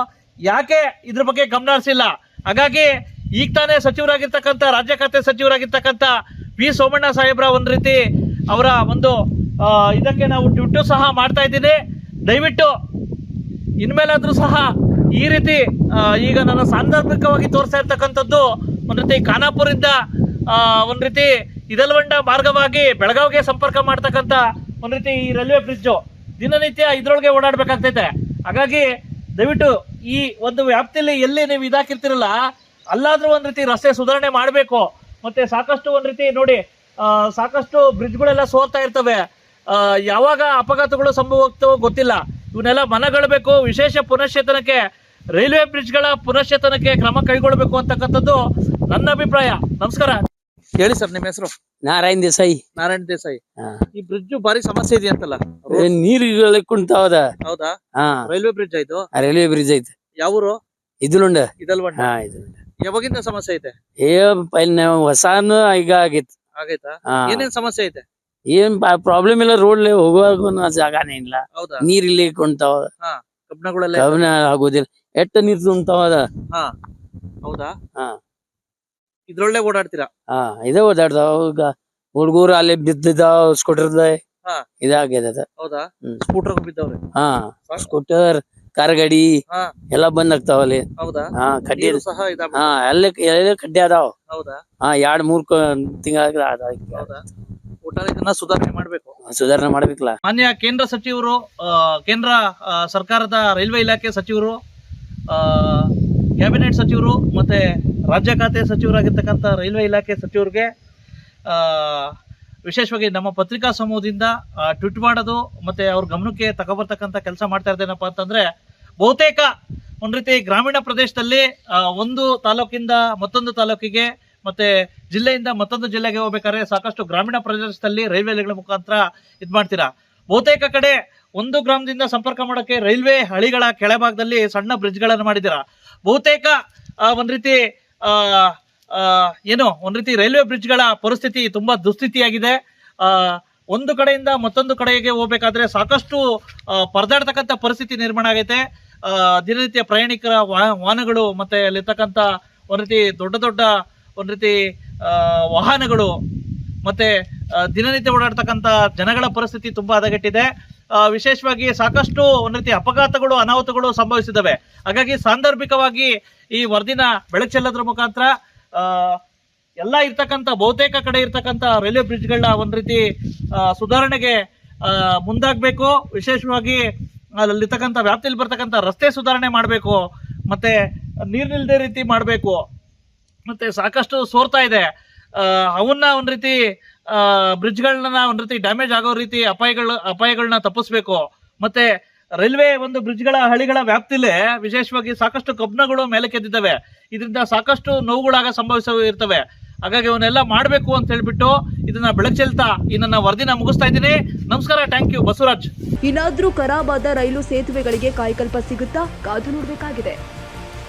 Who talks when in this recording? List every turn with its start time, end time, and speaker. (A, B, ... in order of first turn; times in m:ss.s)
0:00.5-0:08.0 A
0:08.5-0:12.7 A
0:13.8-0:19.9 A
0:20.5-0:32.4 A
0:32.9-0:39.2 A
0:39.7-0:44.8 A
0:45.4-0:48.4 A
0:48.9-0:50.2 A
0:50.8-0:51.5 A
0:51.8-0:52.6 B
0:52.8-0:53.4 A
0:54.0-0:55.9 A
0:55.7-0:57.3 B
0:57.5-0:57.7 A
0:58.0-0:58.2 B
0:58.3-0:59.1 A
0:59.2-0:59.9 B
1:00.2-1:00.6 A
1:01.0-1:02.6 B
1:01.6-1:02.1 A
1:02.8-1:03.7 A
1:04.0-1:06.3 B
1:06.6-1:08.0 A
1:07.1-1:07.5 B
1:08.5-1:12.9 B
1:11.6-1:11.8 A
1:13.0-1:14.2 A
1:13.9-1:16.3 B
1:17.4-1:17.7 A
1:19.3-1:20.1 A
1:20.3-1:24.2 B
1:24.8-1:25.5 B
1:25.6-1:27.0 A
1:27.2-1:29.3 B
1:29.9-1:32.0 B
1:31.0-1:32.8 A
1:32.5-1:34.1 B
1:34.3-1:34.6 A
1:34.8-1:37.1 B
1:37.0-1:37.2 A
1:37.8-1:39.2 A
1:39.3-1:40.2 B
1:40.2-1:44.6 A
1:45.3-1:50.7 A
1:51.5-1:52.1 A
1:52.7-1:58.5 A
1:59.0-1:59.5 A
2:00.0-2:26.2 A
2:26.8-2:36.1 A
2:36.8-2:37.1 A
2:37.7-2:40.5 A
2:41.0-2:49.2 A
2:49.8-2:53.0 A
2:53.6-2:56.8 A
2:57.4-3:00.8 A
3:01.3-3:02.6 A
3:03.5-3:06.6 A
3:07.1-3:11.9 A
3:12.4-3:25.7 A
3:26.1-3:30.2 C